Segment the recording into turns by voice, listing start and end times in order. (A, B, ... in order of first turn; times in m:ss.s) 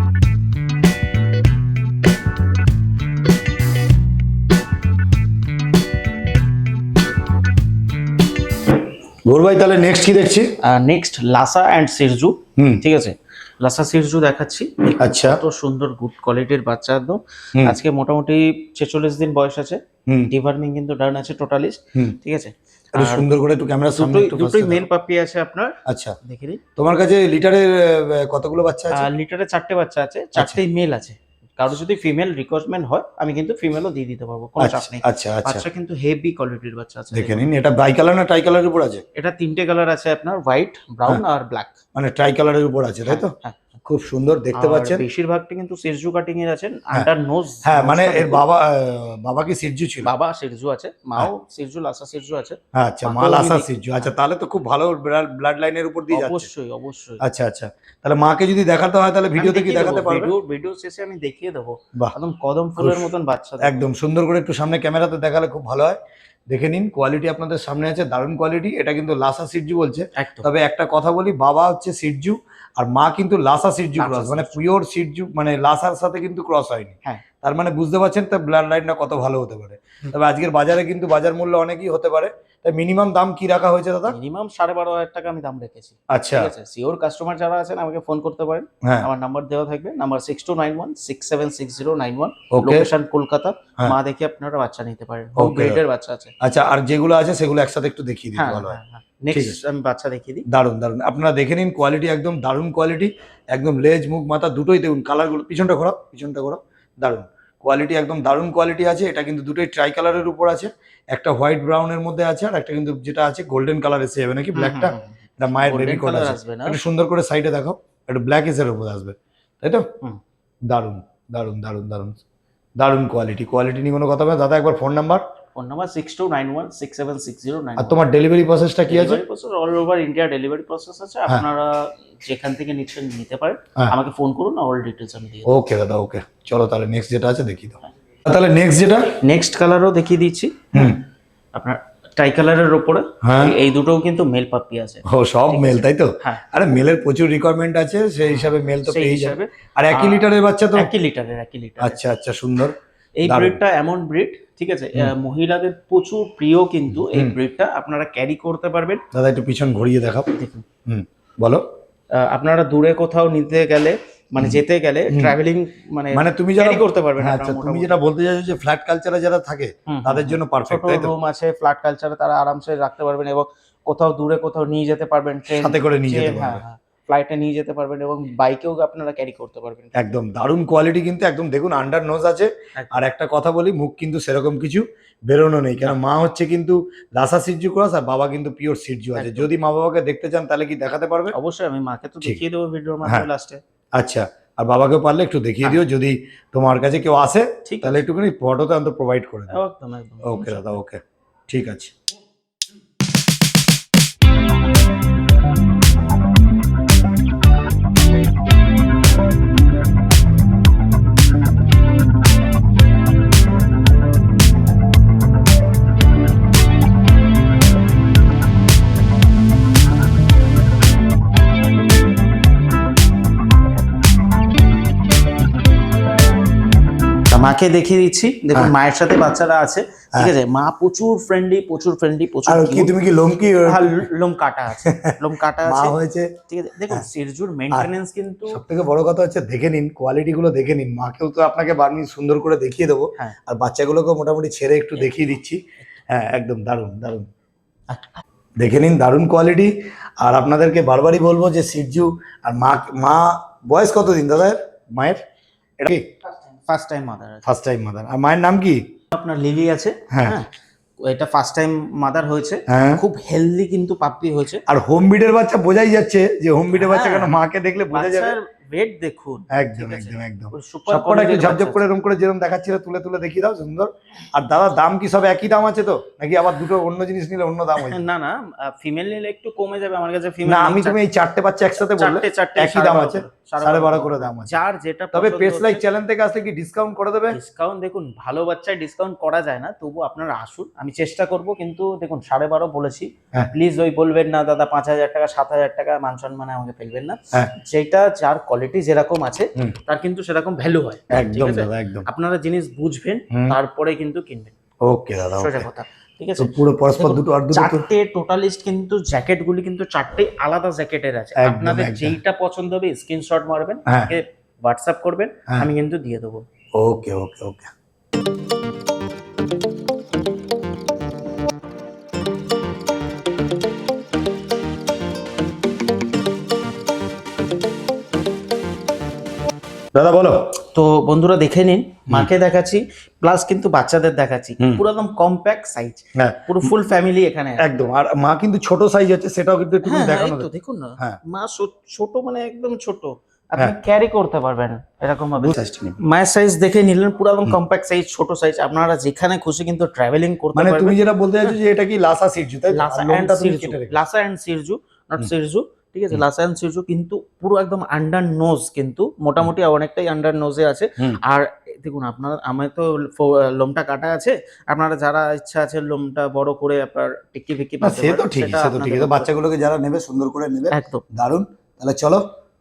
0:09.2-0:10.5 A
0:10.6-0:23.3 B
0:12.6-0:12.8 A
0:15.0-0:15.4 A
0:20.1-0:20.3 A
0:22.9-0:24.8 A
0:23.9-0:26.6 B
0:25.8-0:26.2 A
0:26.8-0:29.1 A
0:28.9-0:37.4 B
0:34.6-0:35.6 A
0:37.1-0:39.0 A
0:39.1-0:41.8 B
0:41.9-0:43.3 A
0:43.0-0:43.6 B
0:43.8-0:45.0 A
0:44.5-0:48.4 B
0:47.6-0:50.1 A
0:50.0-0:53.7 B
0:52.8-0:56.5 A
0:56.1-0:57.2 B
0:57.2-1:00.3 A
0:59.4-1:03.8 B
1:02.8-1:03.1 A
1:03.6-1:06.0 A
1:06.5-1:24.2 A
1:10.2-1:10.5 B
1:14.0-1:14.6 B
1:24.1-1:36.3 B
1:26.1-1:26.5 A
1:32.5-1:32.9 A
1:35.4-1:35.8 A
1:36.4-1:38.8 A
1:38.4-1:40.4 B
1:39.3-1:39.6 A
1:40.5-1:59.9 A
1:54.6-1:56.8 B
2:00.7-2:02.2 A
2:02.8-2:05.2 A
2:05.5-2:08.0 B
2:07.8-2:09.2 A
2:08.9-2:15.5 B
2:15.4-2:19.1 A
2:19.1-2:21.0 B
2:20.7-2:21.0 A
2:21.5-2:26.4 B
2:23.2-2:23.5 A
2:25.1-2:30.9 A
2:28.3-2:32.0 B
2:31.8-2:32.7 A
2:33.2-2:39.0 B
2:33.2-2:33.6 A
2:36.9-2:37.3 A
2:39.1-2:40.3 A
2:40.4-2:40.6 B
2:40.8-2:41.6 A
2:42.1-2:48.0 B
2:44.4-2:45.3 A
2:46.1-2:51.1 A
2:49.9-2:59.9 B
2:55.5-2:56.6 A
3:00.0-3:11.3 A
3:02.8-3:03.0 B
3:09.2-3:09.5 B
3:11.3-3:13.6 B
3:14.0-3:19.5 A
3:17.6-3:18.0 B
3:19.5-3:20.7 B
3:20.2-3:21.9 A
3:47.3-3:52.9 B
3:52.5-3:54.0 A
3:53.6-3:55.9 B
3:54.9-3:55.1 A
3:55.6-3:56.3 A
3:56.5-3:58.6 B
3:58.5-4:07.3 A
4:07.9-4:08.2 B
4:08.6-4:15.2 A
4:15.8-4:16.0 A
4:16.6-4:17.4 B
4:17.4-4:18.8 A
4:19.1-4:20.5 B
4:20.1-4:20.4 A
4:21.0-4:24.6 B
4:22.7-4:23.0 A
4:24.7-4:28.4 A
4:26.7-4:27.3 B
4:27.9-4:31.8 B
4:29.5-4:38.0 A
4:37.8-4:41.0 B
4:40.4-4:44.5 A
4:41.8-4:45.8 B
4:45.1-4:47.4 A
4:47.3-5:04.5 B
5:01.1-5:02.0 A
5:03.3-5:03.6 A
5:04.8-5:05.7 A
5:05.3-5:16.4 B
5:06.4-5:07.9 A
5:11.4-5:12.2 A
5:16.8-5:17.7 A
5:29.9-5:30.5 A
5:30.7-5:37.6 B
5:37.6-5:41.2 A
5:39.8-5:51.6 B
5:45.4-5:46.0 A
5:50.5-5:54.0 A
5:52.7-6:09.3 B
6:07.8-6:12.2 A
6:10.7-6:11.0 B